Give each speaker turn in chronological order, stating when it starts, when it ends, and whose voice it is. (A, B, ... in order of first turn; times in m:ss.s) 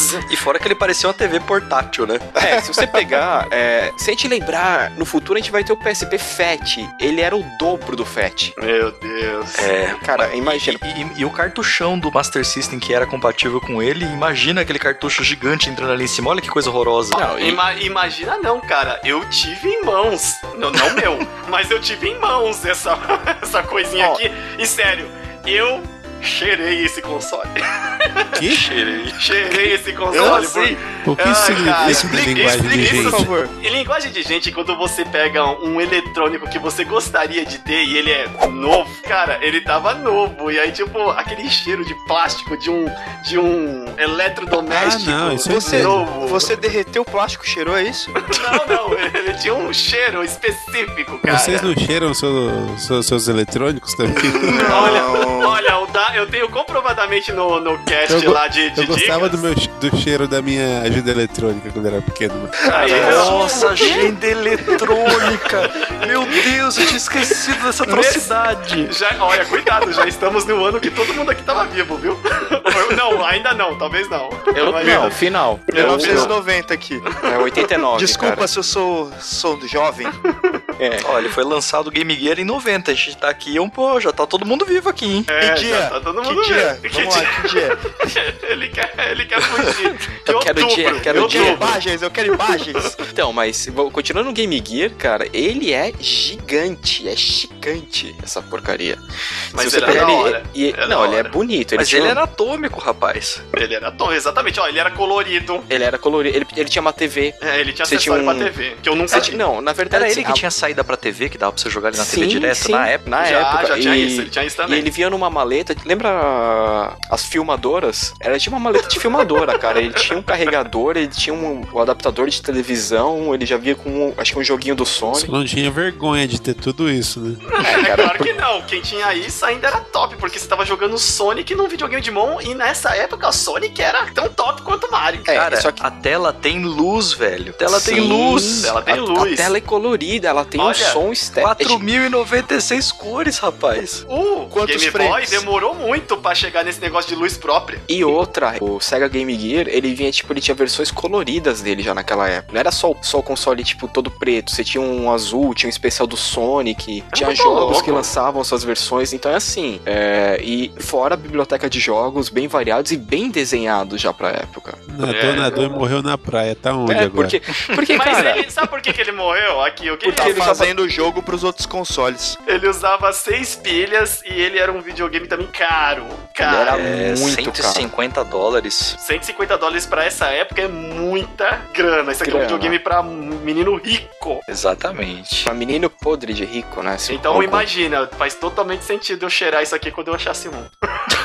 0:00.2-0:02.4 A
0:02.4-0:08.5 B
0:08.6-0:09.7 C
0:09.6-0:17.2 A
0:10.0-0:10.8 B
0:17.1-0:17.6 B
0:17.2-0:28.4 C
0:28.3-0:28.7 D
0:28.5-0:29.2 A
0:29.2-0:46.6 C
0:30.1-0:30.8 E
0:31.0-0:33.3 D
0:31.8-0:33.5 E
0:44.7-0:46.1 D
0:45.4-0:48.2 E
0:48.3-0:51.7 C
0:51.2-0:55.0 D
0:54.1-0:55.6 E
0:54.6-0:59.4 C
0:58.1-1:03.1 D
1:02.6-1:03.3 E
1:02.7-1:04.1 C
1:02.9-1:08.9 A
1:07.8-1:08.3 C
1:08.8-1:16.3 C
1:14.5-1:16.3 B
1:15.7-1:17.0 E
1:17.2-1:18.4 B
1:17.9-1:20.1 E
1:20.8-1:21.1 B
1:21.0-1:25.3 A
1:25.3-1:31.8 C
1:25.4-1:28.1 E
1:30.2-1:31.7 B
1:31.0-1:33.0 E
1:33.1-1:39.0 B
1:39.5-1:41.3 C
1:39.5-1:42.2 B
1:39.8-1:40.1 A
1:41.8-1:43.4 A
1:43.5-1:45.7 C
1:45.7-1:48.5 B
1:47.4-1:49.4 C
1:49.1-1:50.4 B
1:49.9-1:53.0 A
1:51.9-2:05.3 B
1:53.2-1:54.9 C
2:05.2-2:07.6 D
2:07.5-2:15.3 C
2:07.6-2:08.4 B
2:15.2-2:15.8 B
2:15.3-2:18.7 A
2:17.7-2:21.8 B
2:18.6-2:19.5 C
2:20.6-2:21.0 C
2:21.4-2:24.0 A
2:24.1-2:27.8 C
2:24.5-2:25.4 E
2:27.9-2:44.8 B
2:37.1-2:38.1 C
2:44.9-2:47.4 D
2:45.0-2:45.8 C
2:46.9-2:48.4 B
2:47.9-2:50.6 C
2:50.0-2:50.7 B
2:50.1-2:52.4 E
2:52.4-2:56.8 C
2:56.4-2:57.9 B
2:56.7-2:59.0 A
2:59.0-3:04.4 C
3:02.2-3:02.8 B
3:04.5-3:05.5 A
3:05.4-3:07.7 B
3:07.1-3:10.7 C